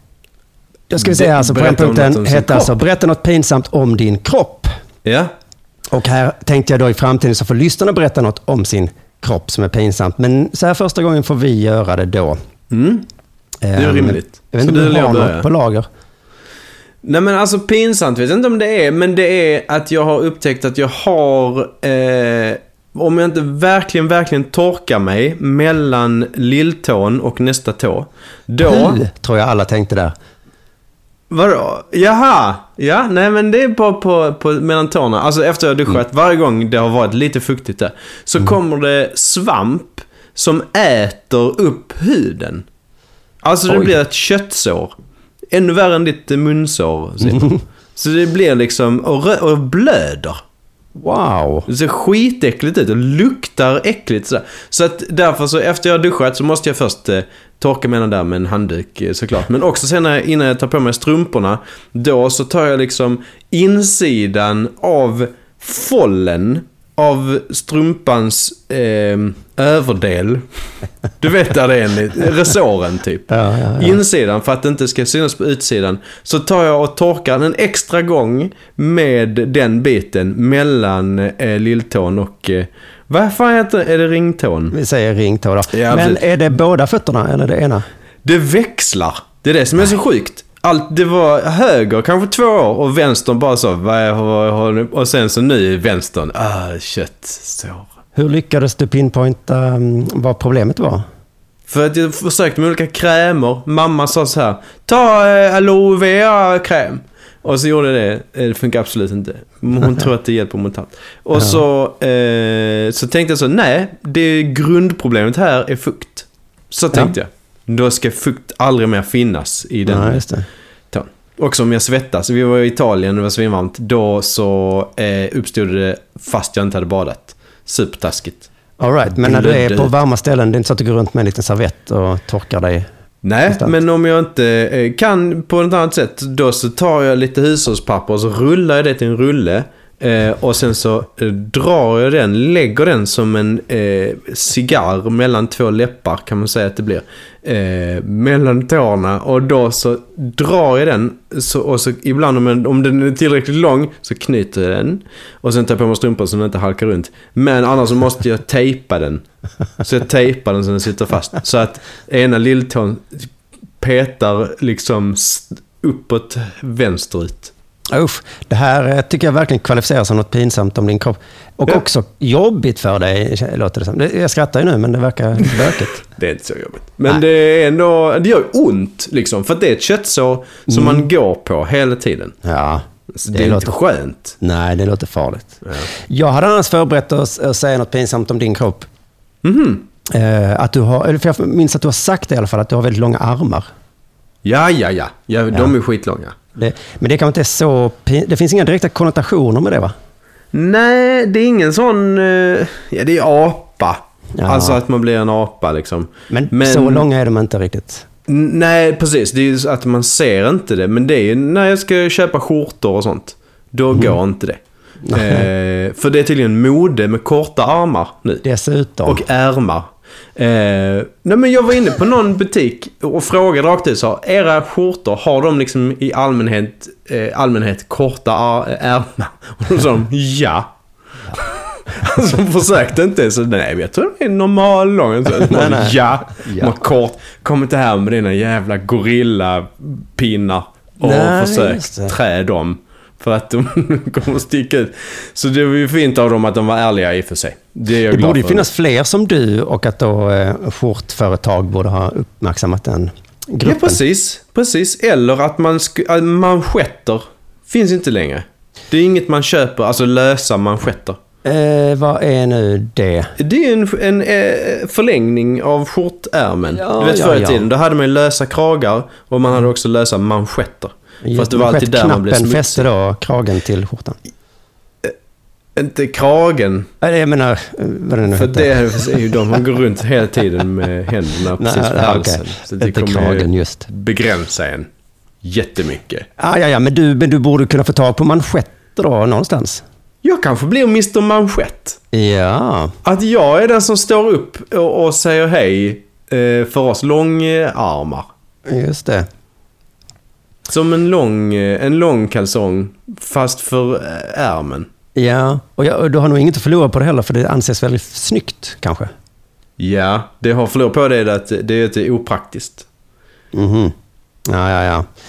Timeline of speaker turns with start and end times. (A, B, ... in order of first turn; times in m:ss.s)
0:00.9-0:04.7 A
0:01.0-0:02.8 B
0:05.0-0:05.3 B
0:05.9-0:12.4 A
0:12.7-0:13.0 B
0:13.6-0:15.8 A
0:13.7-0:15.5 B
0:17.0-0:29.0 B
0:28.6-0:30.1 A
0:31.3-0:42.6 B
0:43.4-0:44.9 B
0:43.7-0:43.9 A
0:45.5-0:50.4 B
0:51.0-0:51.7 A
0:51.7-1:10.4 B
1:11.2-1:24.7 B
1:13.3-1:14.0 A
1:24.7-1:27.8 A
1:25.7-1:26.3 B
1:28.2-1:37.9 B
1:38.1-1:41.0 A
1:41.7-2:00.3 B
1:51.3-1:51.6 A
1:59.8-2:00.4 A
2:00.9-2:08.5 B
2:08.8-2:12.8 A
2:09.1-2:10.0 B
2:13.2-2:39.2 B
2:13.4-2:13.7 A
2:39.8-2:47.5 B
2:47.9-2:56.0 A
2:55.4-3:02.3 B
3:00.7-3:01.1 A
3:02.4-3:03.7 A
3:03.1-3:04.4 B
3:04.4-3:08.9 A
3:05.6-3:05.9 B
3:09.4-3:09.9 B
3:10.1-3:13.6 A
3:14.4-3:16.4 B
3:16.6-3:19.9 A
3:20.5-3:27.1 B
3:24.4-3:24.8 A
3:26.3-3:28.0 A
3:28.3-3:38.4 B
3:35.1-3:35.5 A
3:38.4-3:39.2 A
3:39.0-3:50.7 B
3:51.3-4:08.7 B
3:55.4-3:56.7 A
4:01.0-4:02.1 A
4:08.1-4:14.0 A
4:13.6-4:21.2 B
4:21.4-4:23.3 A
4:23.4-4:32.8 B
4:26.7-4:27.7 A
4:31.2-4:34.2 A
4:35.8-4:36.9 B
4:37.0-4:39.6 A
4:38.3-4:44.9 B
4:41.6-4:43.9 A
4:45.4-4:46.3 B
4:46.4-4:49.8 A
4:50.2-4:52.0 B
4:52.1-4:52.9 A
4:53.0-4:58.3 B
4:58.7-4:59.2 A
5:00.7-5:04.9 B
5:05.2-5:09.1 A
5:09.8-5:12.9 B
5:13.5-5:13.9 A
5:14.5-5:15.1 A